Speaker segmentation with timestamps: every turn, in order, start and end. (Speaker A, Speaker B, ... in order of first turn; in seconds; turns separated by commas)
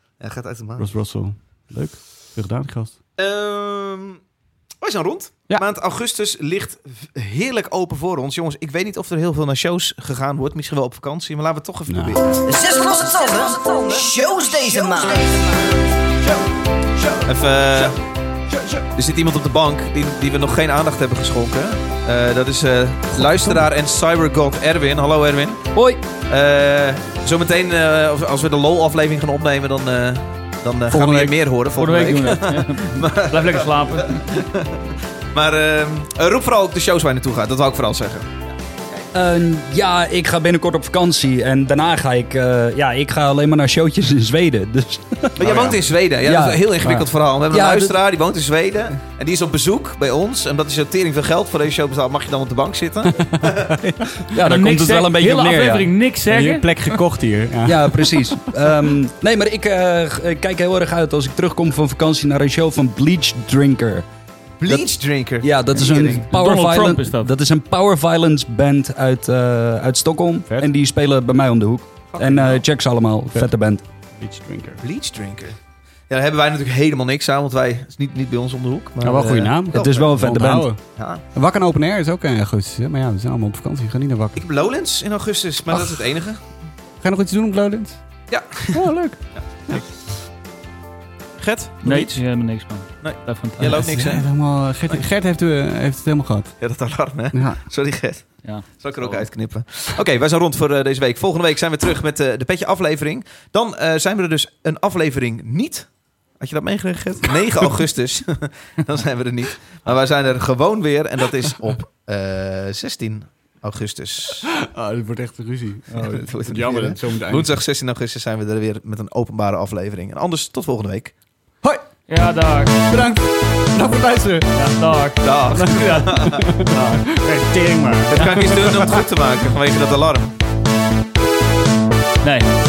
Speaker A: 0.2-0.9, Speaker B: 0.8-3.0, Speaker A: 3.2-4.2, Speaker A: 4.8-12.4, Speaker B: 11.9-12.2, Speaker C: 12.5-15.4, Speaker B: 17.0-17.3, Speaker A: 17.2-18.0, Speaker B: 18.5-18.9, Speaker A: 18.9-25.7, Speaker B: 23.1-23.7, Speaker A: 26.3-34.8, Speaker B: 30.9-31.4, Speaker D: 31.8-34.4, Speaker A: 35.3-38.3, Speaker E: 39.1-46.9, Speaker A: 45.4-53.8, Speaker E: 47.5-48.0, Speaker B: 53.1-54.4, Speaker E: 54.3-55.9, Speaker D: 54.4-56.7, Speaker B: 56.3-58.9, Speaker E: 57.6-64.0, Speaker A: 64.6-66.2, Speaker E: 65.4-73.8, Speaker D: 66.3-67.3, Speaker A: 72.1-72.6, Speaker B: 74.1-74.8, Speaker A: 74.8-75.6, Speaker A: 76.1-80.1, Speaker B: 79.0-80.8, Speaker E: 79.7-80.7, Speaker A: 81.0-81.2, Speaker B: 81.3-84.4, Speaker A: 84.4-86.4, Speaker B: 85.7-86.0, Speaker B: 87.0-88.0, Speaker A: 88.3-89.8, Speaker B: 88.7-89.8, Speaker A: 91.4-92.2, Speaker D: 91.8-93.8, Speaker A: 93.0-94.3, Speaker B: 93.6-96.5, Speaker A: 96.6-105.9, Speaker B: 97.3-97.6, Speaker D: 98.4-99.3, Speaker A: 106.4-114.5, Speaker B: 114.5-117.5, Speaker A: 116.0-121.1, Speaker D: 122.1-123.0, Speaker B: 122.9-124.9, Speaker D: 124.5-126.1, Speaker A: 125.2-126.5, Speaker B: 125.5-129.1, Speaker A: 128.1-130.3, Speaker D: 128.2-128.4, Speaker D: 132.2-132.5